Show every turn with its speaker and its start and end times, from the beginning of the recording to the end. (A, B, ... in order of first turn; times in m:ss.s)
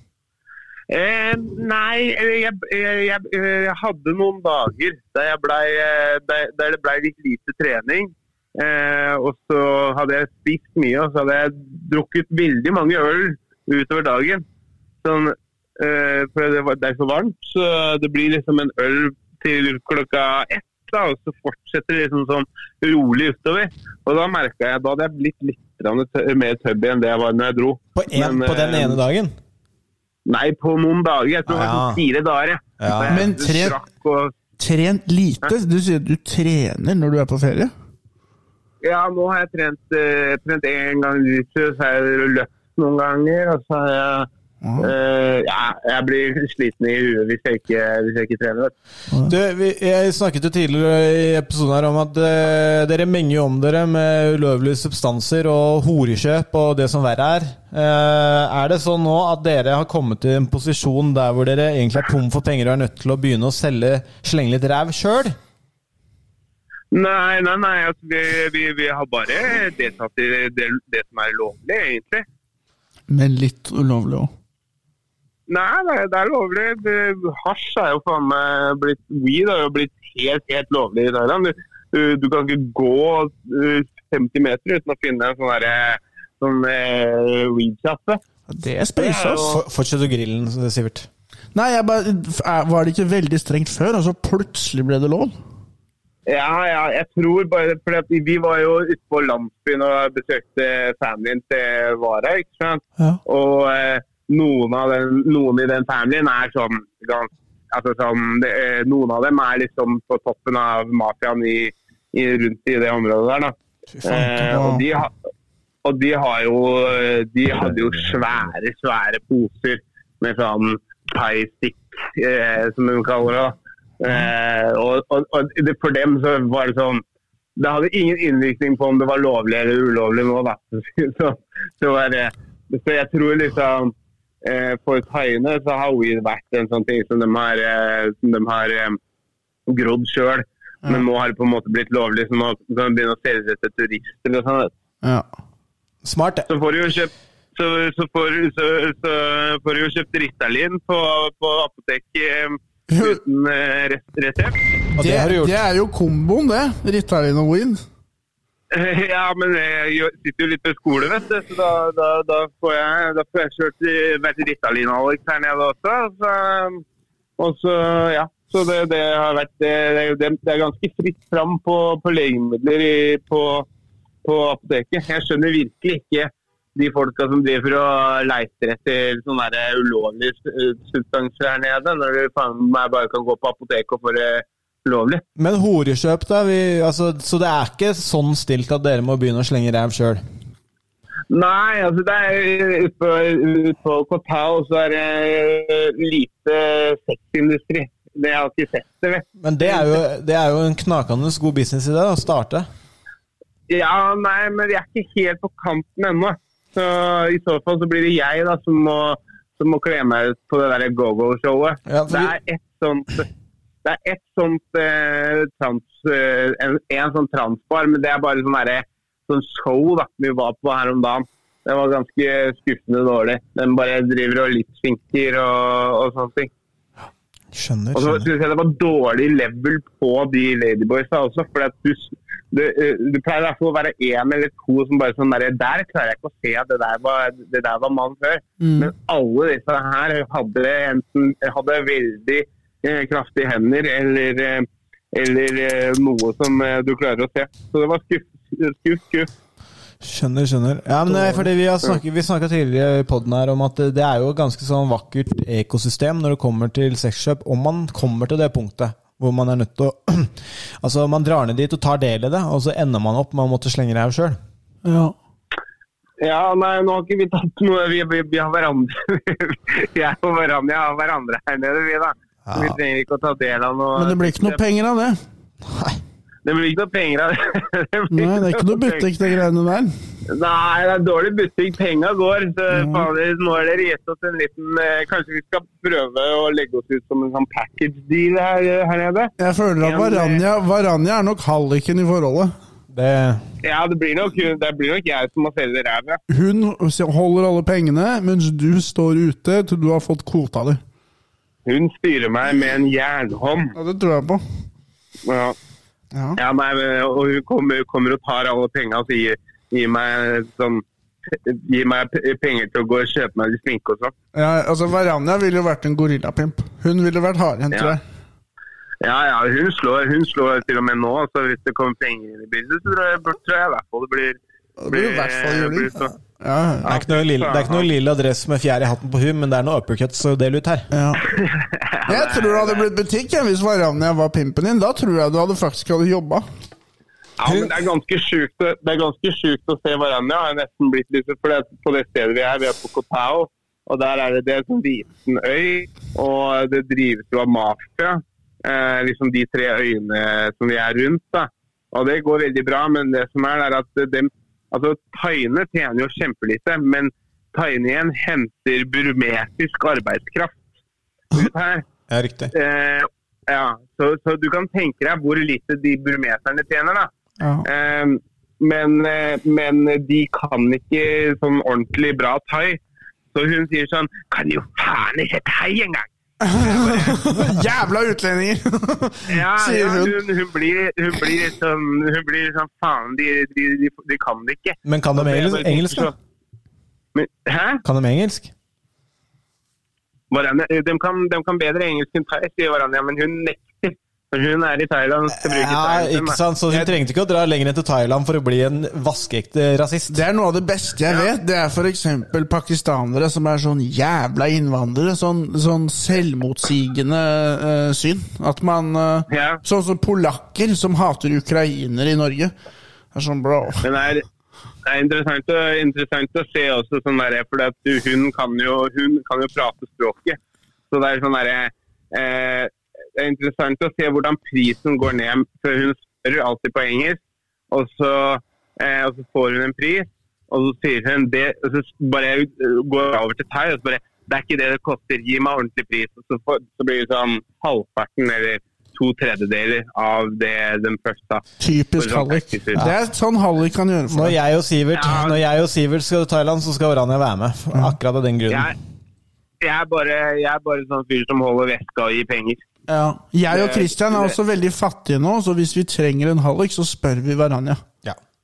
0:00.9-0:14.4 A
0:15.0-0:29.0 A
0:28.0-0:29.4 B
0:30.3-0:34.3 A
0:31.5-0:32.0 B
0:32.8-0:33.4 B
0:33.1-0:33.8 C
0:34.6-0:37.7 C
0:38.8-0:44.3 A
0:44.6-0:44.9 C
0:44.8-0:48.7 A
0:49.3-1:05.4 B
1:06.9-1:12.2 A
1:13.1-1:14.3 C
1:15.5-1:28.2 A
1:28.5-1:29.5 C
1:29.0-1:29.6 A
1:29.4-1:31.1 B
1:31.6-1:35.3 C
1:36.3-1:55.1 A
1:54.1-1:54.8 C
1:55.8-2:07.0 A
2:07.6-2:19.0 A
2:19.7-2:24.7 A
2:26.0-2:26.5 B
2:26.5-2:34.6 A
2:32.9-2:33.2 C
2:34.9-2:35.6 B
2:35.0-2:37.8 C
2:38.7-2:46.8 A
2:47.4-2:53.7 A
2:54.2-3:05.2 A
3:05.4-3:10.2 B
3:11.3-3:19.9 A
3:19.4-3:22.7 B
3:23.7-3:33.3 A
3:31.9-3:32.3 B
3:33.8-3:46.5 A
3:47.5-3:48.3 B
3:47.9-4:09.3 A
3:58.6-3:58.9 C
4:10.0-4:24.4 B
4:24.8-4:25.2 C
4:26.2-4:34.6 A
4:32.4-4:32.8 B
4:34.0-4:35.2 C
4:35.7-4:36.0 B
4:36.4-4:39.0 A
4:38.1-4:39.9 C
4:40.3-4:50.4 A
4:42.7-4:43.1 C
4:49.4-4:52.5 C
4:52.9-4:53.4 B
4:53.6-4:56.2 A
4:56.3-5:00.8 C
5:01.7-5:03.8 A
5:03.8-5:04.4 C
5:05.3-5:05.6 A
5:06.1-5:06.4 C
5:06.4-5:14.1 A
5:14.4-5:18.0 C
5:19.0-5:24.4 A
5:24.8-5:26.9 C
5:24.9-5:26.1 A
5:26.8-5:27.9 A
5:26.8-5:30.9 B
5:30.9-5:31.2 C
5:31.3-5:32.9 A
5:32.1-5:36.4 C
5:37.4-6:00.6 A
6:01.3-6:01.8 A
6:02.1-6:02.5 B
6:02.5-6:07.1 A
6:07.4-6:07.7 C
6:07.6-6:12.8 A
6:13.3-6:17.2 A
6:16.4-6:20.2 C
6:19.3-6:26.1 A
6:24.8-6:26.1 B
6:27.2-6:27.8 A
6:27.8-6:28.5 B
6:30.3-6:36.4 A
6:35.3-6:40.2 B
6:36.7-6:37.0 C
6:40.1-6:52.5 C
6:49.3-6:49.6 A
6:53.1-6:53.8 C
6:53.8-6:54.2 A
6:54.9-7:00.4 A
7:00.9-7:07.2 A
7:07.7-7:21.4 A
7:21.6-7:24.4 C
7:22.0-7:22.8 A
7:24.1-7:28.7 B
7:24.9-7:25.4 A
7:29.6-7:32.6 A
7:32.9-7:37.8 C
7:33.5-7:34.4 A